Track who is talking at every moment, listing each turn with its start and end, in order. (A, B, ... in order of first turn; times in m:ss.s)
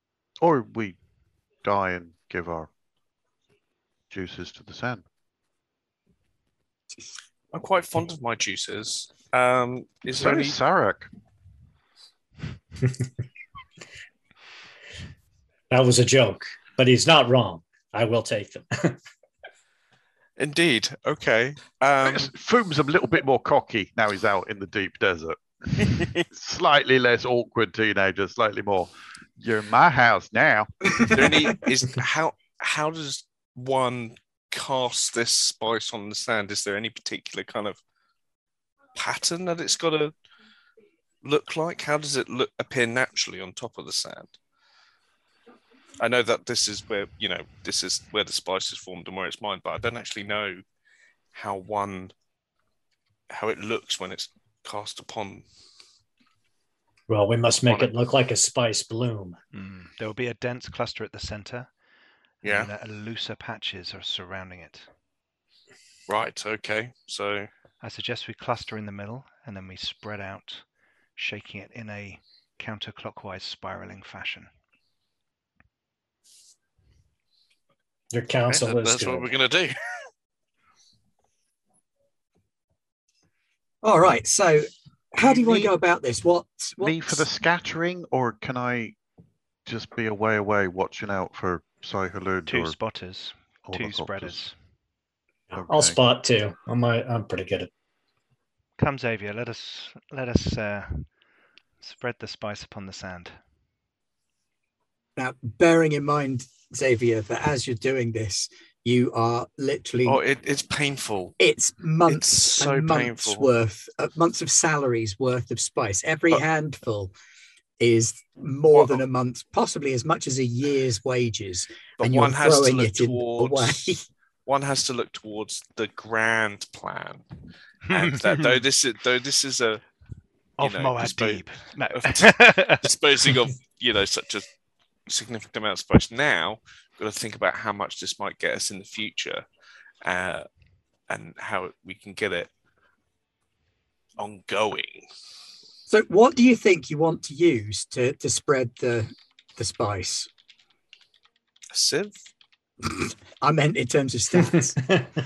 0:00.4-0:01.0 A
0:01.6-0:02.7 A
0:04.1-0:05.0 A
0:07.5-0:10.6 B
0:10.2-0:11.1 A
0:15.7-0:19.0 C
0:20.4-0:22.3 B
0:22.0-0:31.1 A
0:31.0-0:37.8 B
0:39.0-0:40.1 B
0:41.2-0:44.4 B
0:46.0-0:50.6 B
0:51.3-0:52.1 B
0:53.3-0:55.4 B
0:57.1-0:59.4 C
0:57.6-0:58.0 B
0:59.5-1:01.7 D
1:02.4-1:02.7 B
1:02.4-1:04.9 D
1:06.1-1:07.5 B
1:07.8-1:10.6 D
1:11.2-1:14.5 D
1:18.1-1:19.3 C
1:18.5-1:20.0 B
1:23.8-1:27.2 E
1:26.8-1:29.0 A
1:29.7-1:32.8 A
1:32.5-1:34.6 D
1:33.6-1:34.4 A
1:35.5-1:36.0 A
1:35.6-1:37.7 C
1:38.8-1:41.1 D
1:41.8-1:43.4 D
1:45.2-1:50.2 E
1:50.0-1:51.4 B
1:51.4-1:57.1 E
1:52.1-1:53.5 B
1:57.8-2:04.0 E
1:58.7-1:59.0 B
2:02.0-2:07.3 B
2:07.9-2:08.6 D
2:07.9-2:09.8 B
2:10.6-2:12.8 D
2:10.6-2:14.5 B
2:15.1-2:19.5 B
2:20.0-2:20.5 B
2:21.1-2:22.5 B
2:24.2-2:25.1 B
2:25.9-2:30.3 E
2:31.7-2:32.2 B
2:32.8-2:34.9 E